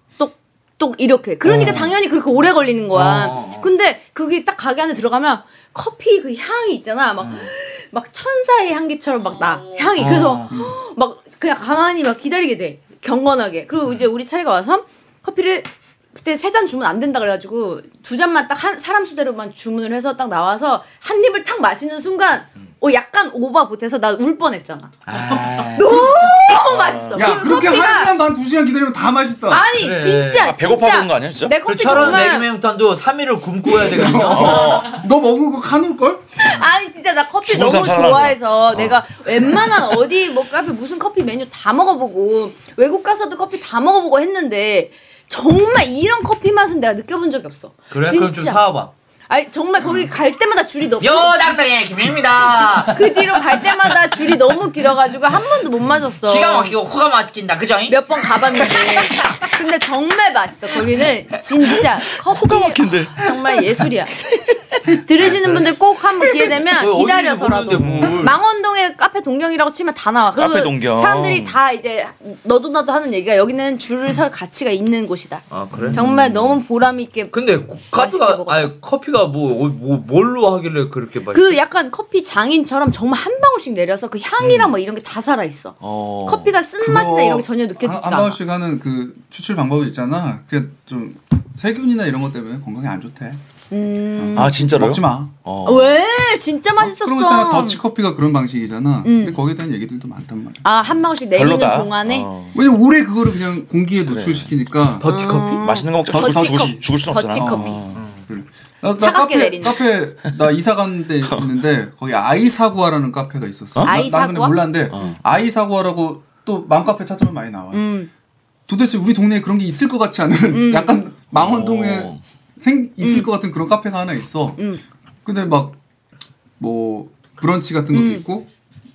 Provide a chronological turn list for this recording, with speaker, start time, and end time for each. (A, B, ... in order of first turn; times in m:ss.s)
0:00.2-0:24.9 A
0:01.4-0:02.0 B
0:02.9-0:03.7 B
0:10.0-0:10.5 B
0:25.1-0:26.1 B
0:25.8-0:28.2 A
0:25.8-0:26.5 C
0:26.7-0:27.2 D
0:27.1-0:29.7 C
0:29.5-0:32.5 A
0:29.8-0:30.5 B
0:30.4-0:32.2 D
0:31.7-0:34.8 B
0:33.8-0:36.2 C
0:34.1-0:35.0 D
0:36.4-0:48.6 A
0:37.4-0:38.9 D
0:47.9-0:48.9 B
0:49.3-0:51.6 A
0:51.0-0:53.4 B
0:52.9-0:56.8 A
0:56.3-0:58.0 B
0:57.9-1:04.3 A
0:58.5-0:59.4 B
1:02.2-1:03.3 D
1:04.8-1:17.4 A
1:05.2-1:05.7 B
1:06.4-1:08.4 B
1:07.8-1:08.3 D
1:10.4-1:11.6 D
1:15.5-1:16.0 B
1:15.8-1:16.6 D
1:17.3-1:21.6 B
1:17.9-1:18.7 A
1:21.3-1:28.4 A
1:25.8-1:26.5 D
1:26.8-1:33.4 C
1:33.7-1:34.6 A
1:34.2-1:35.3 C
1:34.3-1:36.0 D
1:35.6-1:37.8 A
1:36.8-1:40.6 C
1:39.0-1:39.4 A
1:40.6-1:42.3 A
1:41.3-1:42.6 D
1:42.5-1:45.1 C
1:44.1-1:44.5 D
1:45.0-1:45.6 B
1:45.0-1:47.8 A
1:45.6-1:48.0 D
1:46.1-1:57.9 C
1:48.0-1:48.2 B
1:49.0-1:49.8 A
1:51.2-1:51.5 D
1:53.8-1:54.6 A
1:54.9-1:55.2 D
1:57.7-1:58.1 A
1:58.7-2:04.6 C
2:00.5-2:01.0 A
2:01.3-2:02.2 D
2:03.0-2:03.3 A
2:05.2-2:05.8 C
2:06.6-2:08.5 C
2:07.9-2:08.2 A